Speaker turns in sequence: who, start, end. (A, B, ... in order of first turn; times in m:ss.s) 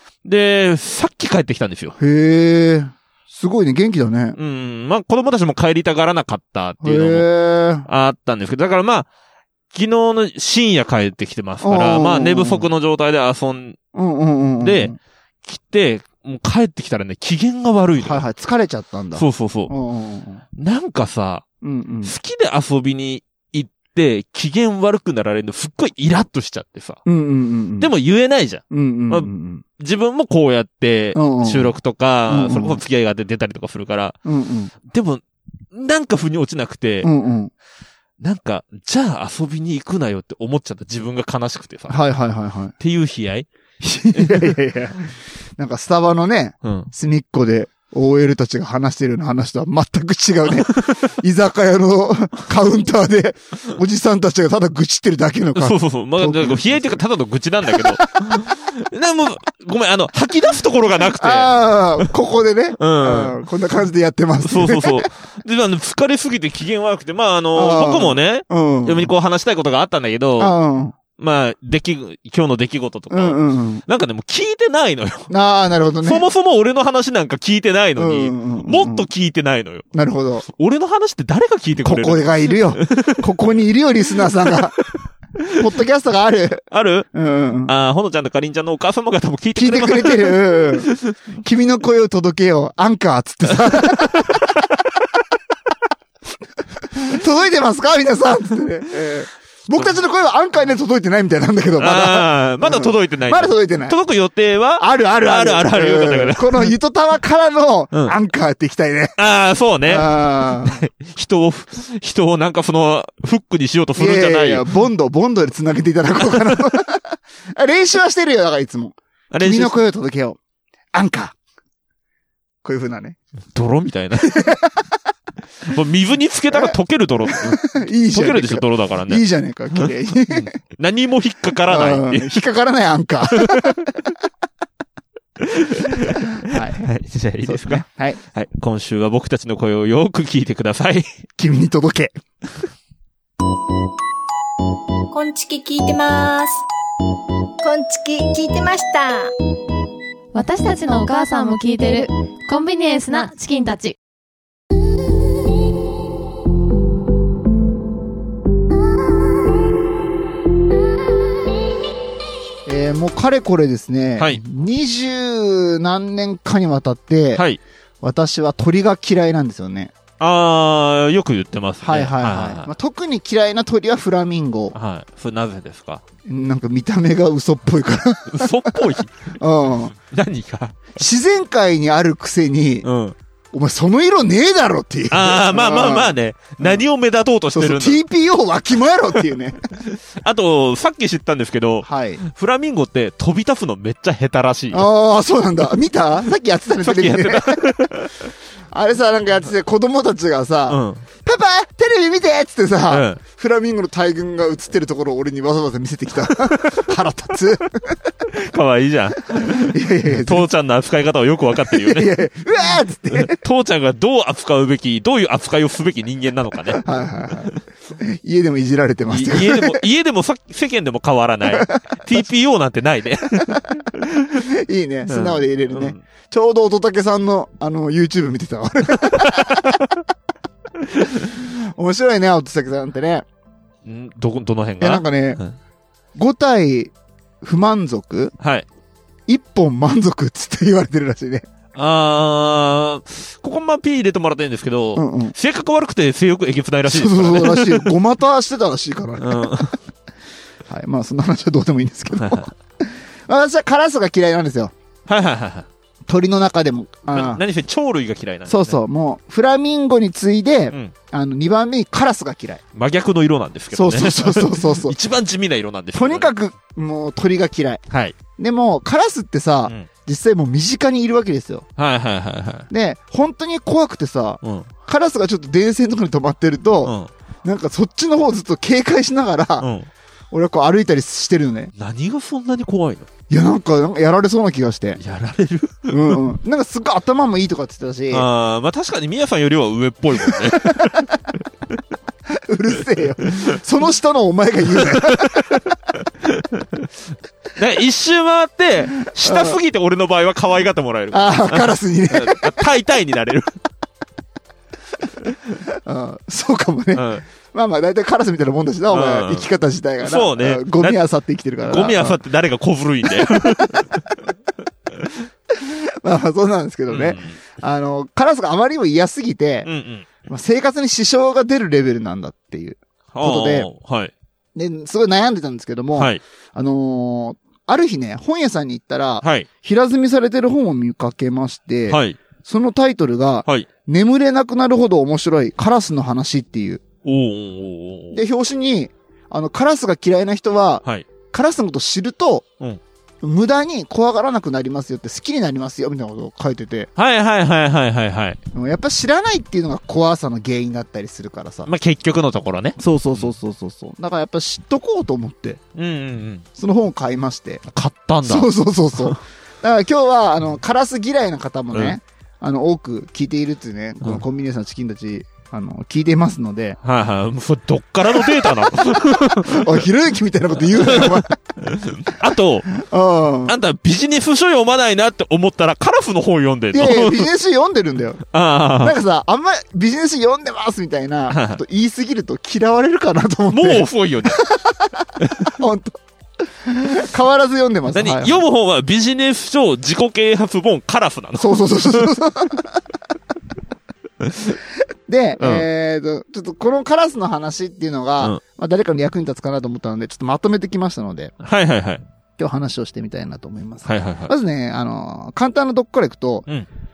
0:00.2-0:02.0 A
0:02.0-0:04.4 B
0:04.4-0:07.3 A
0:06.8-0:07.8 B
0:07.8-0:09.1 A
0:09.7-0:13.8 A
0:11.6-0:12.7 B
0:13.9-0:15.0 B
0:14.6-0:14.9 A
0:15.4-0:18.2 A
0:18.0-0:20.4 B
0:19.1-0:19.7 A
0:20.6-0:21.4 A
0:21.6-0:22.1 B
0:22.0-0:27.0 A
0:27.0-0:27.9 B
0:27.8-0:34.2 A
0:28.7-0:29.6 B
0:31.1-0:31.7 B
0:32.3-0:32.8 B
0:34.2-0:34.7 B
0:34.8-0:37.1 A
0:37.0-0:37.5 B
0:38.2-0:42.0 A
0:41.9-0:42.7 B
0:42.8-0:43.5 A
0:43.8-0:57.0 B
0:44.1-0:44.6 A
0:46.6-0:46.9 A
0:55.5-1:02.1 A
0:58.1-0:58.4 B
1:01.2-1:05.0 B
1:02.8-1:03.4 A
1:04.4-1:10.5 A
1:07.5-1:09.1 B
1:10.4-1:11.0 B
1:11.2-1:15.3 A
1:13.1-1:13.8 B
1:15.3-1:16.2 B
1:16.0-1:19.8 A
1:18.0-1:19.1 B
1:19.9-1:20.5 B
1:20.5-1:23.3 A
1:21.8-1:24.8 B
1:24.2-1:24.6 A
1:25.5-1:27.7 B
1:26.7-1:27.1 A
1:27.6-1:31.1 A
1:29.6-1:30.9 B
1:31.4-1:34.5 B
1:33.7-1:34.4 A
1:36.9-1:44.0 B
1:41.8-1:46.7 A
1:44.8-1:49.2 B
1:49.2-1:54.6 A
1:49.8-1:50.8 B
1:54.0-2:00.4 B
1:56.2-1:56.6 A
1:59.3-1:59.8 A
2:00.9-2:01.3 B
2:02.6-2:03.2 B
2:03.5-2:04.4 A
2:04.2-2:04.9 B
2:05.6-2:09.2 A
2:07.3-2:10.5 B
2:09.8-2:12.4 A
2:11.7-2:13.9 B
2:13.3-2:13.8 A
2:15.4-2:21.1 A
2:16.3-2:16.9 B
2:17.4-2:18.2 B
2:21.4-2:22.2 B
2:25.1-2:26.6 C
2:27.6-2:29.3 C
2:30.3-2:34.0 D
2:42.6-2:47.4 B
2:47.3-2:47.6 A
2:48.0-2:49.9 B
2:50.2-2:52.7 A
2:51.8-2:54.7 B
2:54.7-2:56.0 A
2:56.2-2:59.9 B
2:58.3-2:59.1 A
3:00.0-3:01.0 A
3:01.0-3:02.9 B
3:02.8-3:03.2 A
3:03.5-3:06.8 B
3:05.1-3:08.0 A
3:07.5-3:09.6 B
3:09.9-3:14.9 A
3:11.8-3:12.2 B
3:14.7-3:17.9 B
3:16.8-3:18.1 A
3:18.7-3:28.0 B
3:20.7-3:21.0 A
3:22.9-3:23.2 A
3:26.2-3:26.9 A
3:28.3-3:32.1 A
3:29.4-3:30.5 B
3:31.7-3:33.4 B
3:33.1-3:36.8 A
3:36.8-3:39.8 B
3:39.1-3:43.9 A
3:41.5-3:42.0 B
3:44.3-3:49.8 B
3:45.1-3:46.0 A
3:49.1-3:49.5 A
3:51.1-3:53.2 B
3:53.8-3:55.6 A
3:54.8-3:55.4 B
3:56.1-3:58.3 B
3:58.4-3:58.6 A
3:59.3-4:01.4 B
4:01.7-4:07.9 A
4:05.0-4:05.3 B
4:06.9-4:09.7 B
4:09.2-4:09.7 A
4:10.7-4:14.7 B
4:12.1-4:12.5 A
4:15.1-4:15.7 A
4:16.1-4:17.4 B
4:17.1-4:18.8 A
4:18.5-4:22.6 B
4:22.7-4:26.3 A
4:23.7-4:24.9 B
4:25.9-4:27.8 B
4:27.9-4:28.2 A
4:28.4-4:31.6 B
4:31.8-4:32.7 A
4:32.7-4:39.7 B
4:34.4-4:34.7 A
4:36.8-4:37.1 A
4:39.6-4:39.9 A
4:40.3-4:41.7 B
4:41.8-4:43.1 A
4:43.3-4:45.0 B
4:45.0-4:46.2 A
4:45.9-4:48.3 B
4:48.1-4:51.1 A
4:50.3-4:51.1 B
4:52.3-4:55.6 B
4:54.7-4:55.5 A
4:56.2-4:56.9 A
4:57.6-5:03.5 A
4:59.2-4:59.6 B
5:01.1-5:02.6 B
5:05.8-5:12.2 B
5:06.9-5:07.2 A
5:08.9-5:09.5 A
5:10.0-5:11.0 A
5:11.6-5:13.9 A
5:13.2-5:14.0 B
5:15.5-5:19.7 B
5:16.9-5:17.4 A
5:19.6-5:20.1 A
5:20.2-5:23.7 B
5:23.1-5:24.1 A
5:24.5-5:36.8 B
5:26.0-5:26.2 A
5:29.2-5:29.5 A
5:31.9-5:32.2 A
5:37.0-5:38.2 A
5:38.1-5:42.4 B
5:43.2-5:46.9 B
5:47.0-5:48.4 A
5:48.5-5:51.7 B
5:51.6-5:53.3 A
5:52.8-5:55.6 B
5:55.8-5:56.4 A
5:56.6-5:57.6 B
5:57.7-5:59.2 A
5:58.2-6:06.8 B
6:06.8-6:09.8 A
6:08.2-6:11.4 B
6:10.7-6:12.7 A
6:12.8-6:13.5 B
6:13.4-6:17.3 A
6:16.7-6:18.2 B
6:18.2-6:19.0 A
6:18.8-6:24.9 B
6:21.3-6:21.6 A
6:23.5-6:24.4 A
6:25.2-6:25.5 A
6:25.4-6:26.0 B
6:26.6-6:28.4 B
6:27.9-6:32.1 A
6:31.4-6:32.8 B
6:34.2-6:34.5 A
6:35.1-6:41.3 B
6:35.4-6:35.6 A
6:41.4-6:42.0 A
6:42.4-6:46.5 B
6:43.8-6:44.3 A